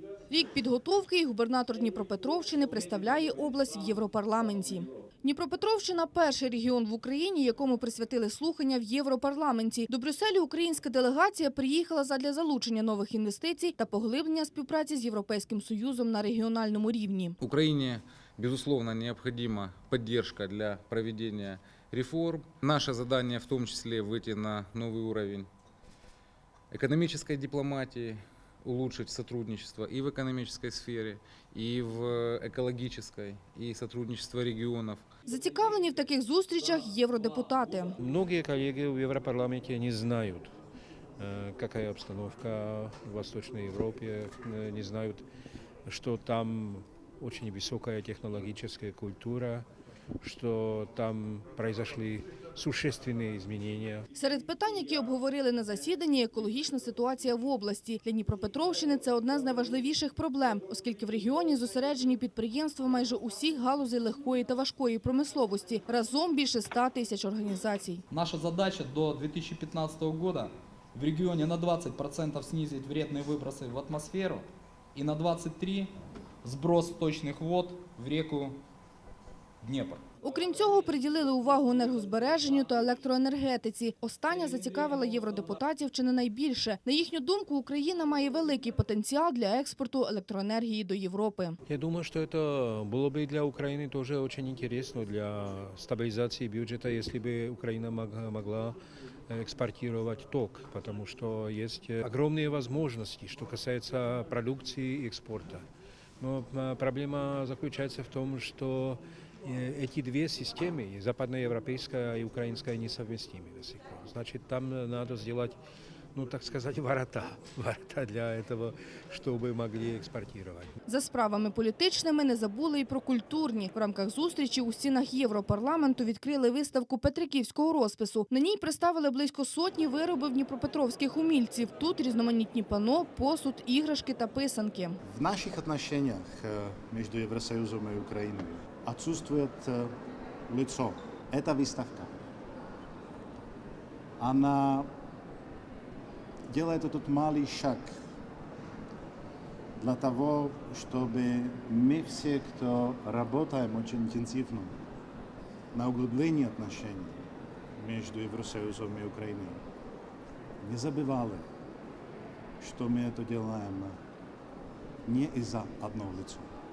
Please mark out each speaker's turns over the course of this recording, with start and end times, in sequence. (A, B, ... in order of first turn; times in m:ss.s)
0:00.3-0:17.4 A
0:17.4-0:25.5 B
0:26.7-0:35.0 B
0:35.2-0:38.0 A
0:38.0-0:40.5 C
0:41.2-0:45.2 C
0:45.8-0:49.6 C
0:50.2-0:54.0 C
0:54.1-1:08.0 A
1:08.1-1:15.9 D
1:16.4-1:18.6 D
1:17.9-1:18.4 B
1:19.6-1:20.0 D
1:20.2-1:31.6 A
1:31.6-1:38.8 C
1:39.3-1:45.6 C
1:46.2-1:55.6 C
1:56.1-2:00.7 C
2:00.9-2:15.0 A
2:15.0-2:19.9 E
2:20.5-2:22.1 E
2:24.2-2:24.9 E
2:26.5-2:27.9 E
2:29.8-2:34.8 E
2:35.7-2:39.6 E
2:40.6-2:41.4 E
2:42.6-2:44.0 E
2:45.0-2:46.5 E